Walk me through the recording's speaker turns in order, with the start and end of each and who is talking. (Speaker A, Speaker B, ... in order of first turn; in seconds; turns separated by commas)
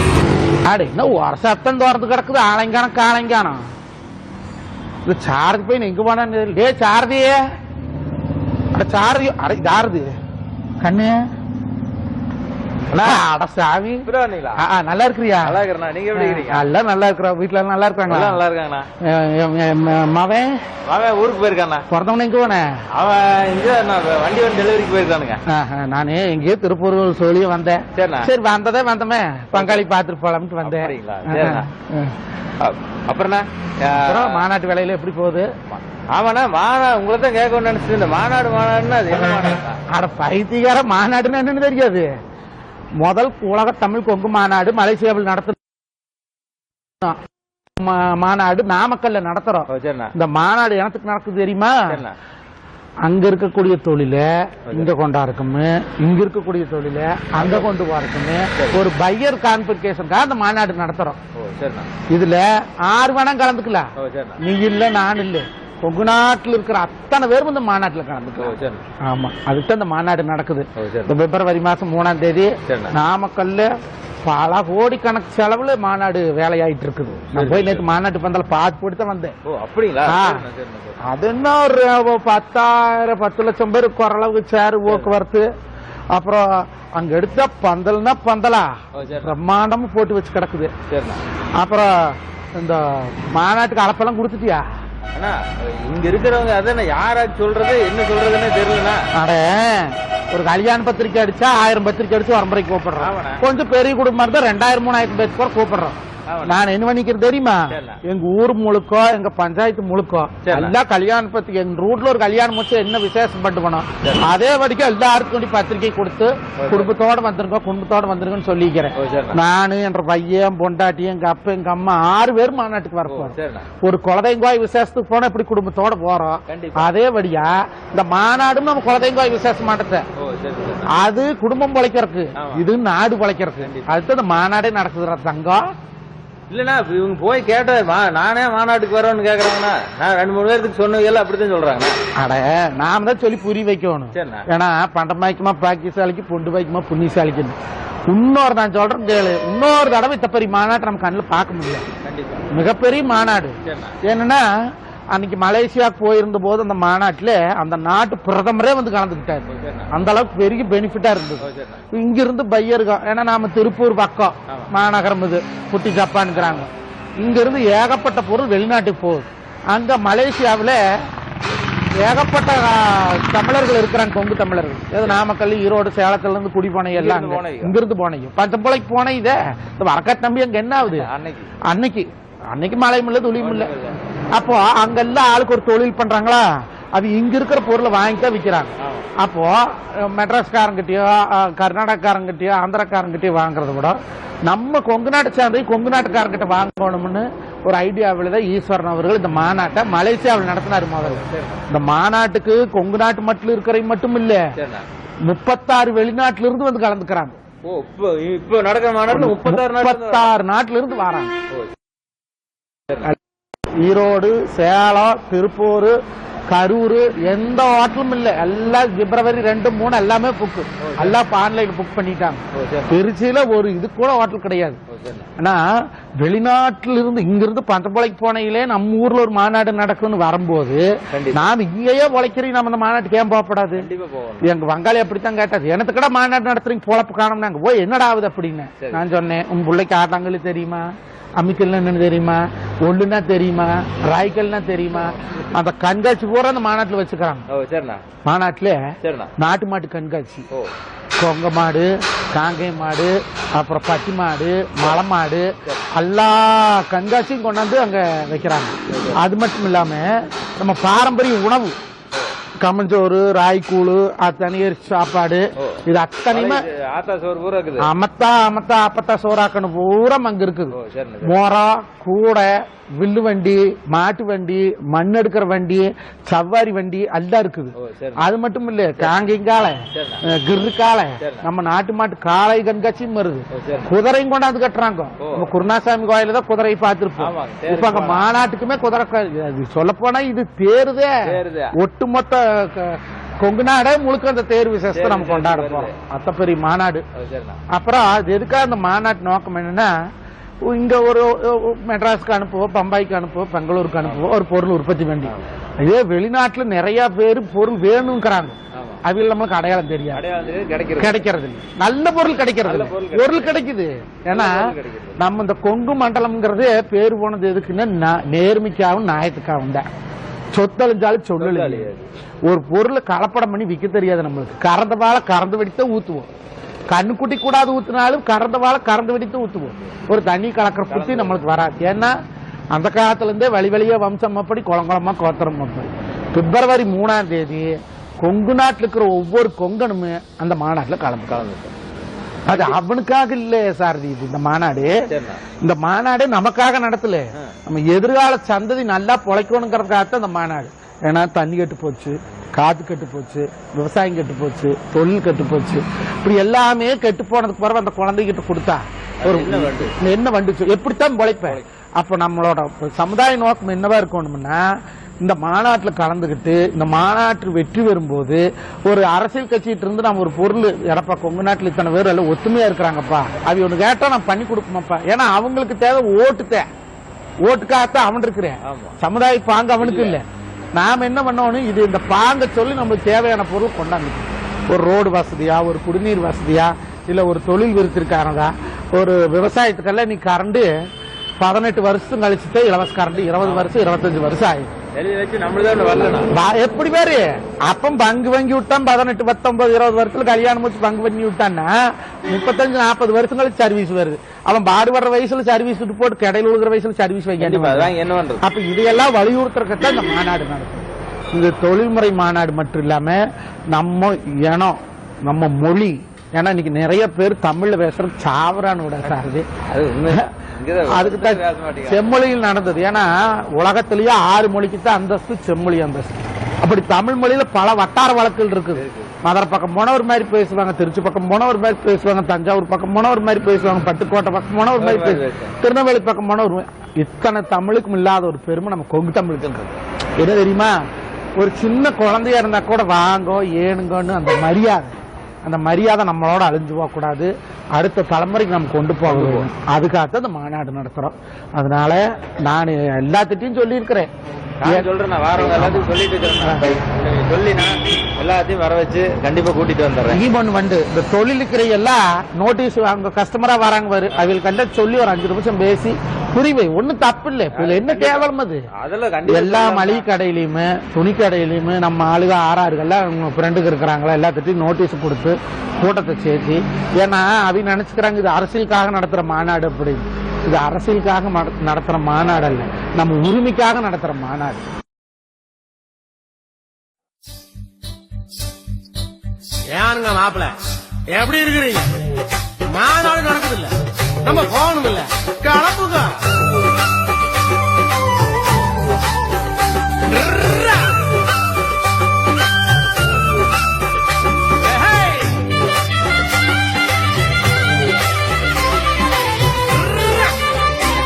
Speaker A: 0.7-3.6, Speaker A: 5.0-7.4, Speaker A: 8.7-10.1, Speaker A: 10.8-11.2, Speaker A: 12.9-15.6, Speaker B: 14.0-14.6, Speaker B: 15.4-16.6, Speaker A: 16.1-18.4, Speaker B: 18.1-18.9, Speaker A: 19.0-20.6, Speaker B: 20.9-21.9, Speaker A: 21.9-22.7, Speaker B: 22.9-25.4, Speaker A: 25.5-32.1, Speaker B: 27.9-28.3, Speaker B: 29.5-29.9, Speaker B: 30.6-31.7, Speaker B: 32.6-34.4, Speaker A: 33.9-35.5, Speaker B: 35.7-39.8, Speaker A: 39.9-42.1, Speaker A: 43.0-45.6, Speaker A: 47.8-52.0, Speaker B: 49.7-50.1, Speaker B: 51.9-52.1, Speaker A: 53.0-61.2, Speaker B: 57.3-57.7, Speaker B: 58.5-58.8, Speaker B: 61.4-61.9, Speaker A: 62.1-63.9, Speaker B: 64.0-64.4, Speaker A: 64.4-73.7, Speaker B: 68.4-68.8, Speaker B: 70.8-71.2, Speaker B: 72.7-72.9, Speaker A: 74.2-79.3, Speaker B: 77.3-77.8, Speaker B: 79.4-81.1, Speaker A: 80.0-80.4, Speaker A: 81.0-85.4, Speaker B: 84.9-85.2, Speaker A: 86.1-90.7, Speaker B: 88.9-89.3, Speaker B: 90.9-91.2, Speaker A: 91.5-94.6, Speaker B: 95.1-99.1, Speaker A: 99.1-130.0, Speaker B: 103.0-103.5, Speaker B: 106.3-106.6, Speaker B: 107.7-108.0, Speaker B: 110.4-110.8, Speaker B: 116.6-116.9, Speaker B: 118.9-119.4, Speaker B: 123.1-123.7, Speaker B: 126.5-126.8, Speaker B: 130.2-130.9, Speaker A: 130.9-135.7, Speaker B: 132.4-132.7, Speaker B: 133.6-133.9, Speaker B: 136.5-142.0, Speaker A: 142.2-151.8, Speaker B: 144.1-144.4, Speaker B: 152.0-152.5, Speaker A: 152.5-154.5, Speaker B: 153.6-154.0, Speaker A: 155.1-170.8, Speaker B: 159.4-159.9, Speaker B: 161.4-161.8, Speaker B: 166.3-166.7, Speaker A: 172.0-181.1, Speaker B: 175.0-175.3, Speaker B: 176.9-177.8, Speaker B: 180.8-181.5, Speaker A: 181.7-183.7, Speaker B: 183.4-184.0, Speaker A: 184.3-204.4, Speaker B: 188.8-189.1, Speaker B: 201.0-201.6, Speaker B: 204.5-204.8, Speaker A: 205.2-207.4, Speaker B: 207.6-210.3, Speaker A: 209.1-211.3, Speaker A: 213.8-215.9, Speaker A: 216.5-224.8, Speaker B: 220.8-221.2, Speaker B: 222.5-223.0, Speaker B: 224.9-225.3, Speaker A: 226.2-233.9, Speaker B: 231.1-231.5, Speaker B: 233.8-234.5, Speaker A: 234.4-240.9, Speaker B: 238.8-239.0, Speaker A: 241.4-247.5, Speaker B: 247.5-248.0, Speaker A: 248.2-248.8, Speaker B: 249.0-249.3, Speaker A: 249.4-250.4, Speaker A: 251.2-261.8, Speaker B: 258.9-259.2, Speaker A: 262.6-266.6, Speaker B: 265.6-267.9, Speaker A: 267.8-297.0, Speaker B: 270.7-271.4, Speaker B: 277.7-278.2, Speaker B: 279.9-280.3, Speaker B: 281.2-281.5, Speaker B: 283.5-283.9, Speaker B: 285.2-285.5, Speaker B: 287.2-288.3, Speaker B: 291.2-291.7, Speaker B: 294.9-295.9, Speaker B: 297.1-297.6, Speaker A: 297.7-299.9, Speaker A: 300.6-310.2, Speaker B: 308.7-309.0, Speaker B: 310.1-311.3, Speaker A: 311.0-319.9, Speaker B: 312.6-313.6, Speaker B: 314.3-315.3, Speaker A: 320.5-321.9, Speaker B: 321.4-322.1, Speaker A: 322.4-326.3, Speaker A: 326.9-332.1, Speaker B: 330.9-331.4, Speaker A: 332.7-341.3, Speaker B: 341.3-341.7, Speaker A: 342.4-345.0, Speaker B: 342.5-342.8, Speaker B: 345.1-345.4, Speaker A: 345.6-364.6, Speaker B: 359.2-359.9, Speaker A: 365.2-376.7, Speaker A: 377.4-380.2, Speaker B: 378.6-379.0, Speaker B: 379.8-380.2, Speaker A: 380.7-390.7, Speaker A: 391.4-394.7, Speaker B: 393.4-393.7, Speaker B: 394.9-396.3, Speaker A: 396.3-401.7, Speaker A: 402.2-419.5, Speaker B: 407.4-408.4, Speaker B: 419.1-422.1, Speaker A: 420.9-440.8, Speaker B: 428.7-429.1, Speaker B: 434.7-435.6, Speaker A: 441.4-454.1, Speaker B: 449.1-449.5, Speaker B: 454.6-460.2, Speaker A: 454.6-456.7, Speaker A: 460.1-468.6, Speaker B: 467.5-470.1, Speaker A: 469.3-484.6, Speaker C: 489.7-492.0, Speaker C: 492.6-496.2, Speaker C: 500.1-500.9, Speaker C: 504.6-505.4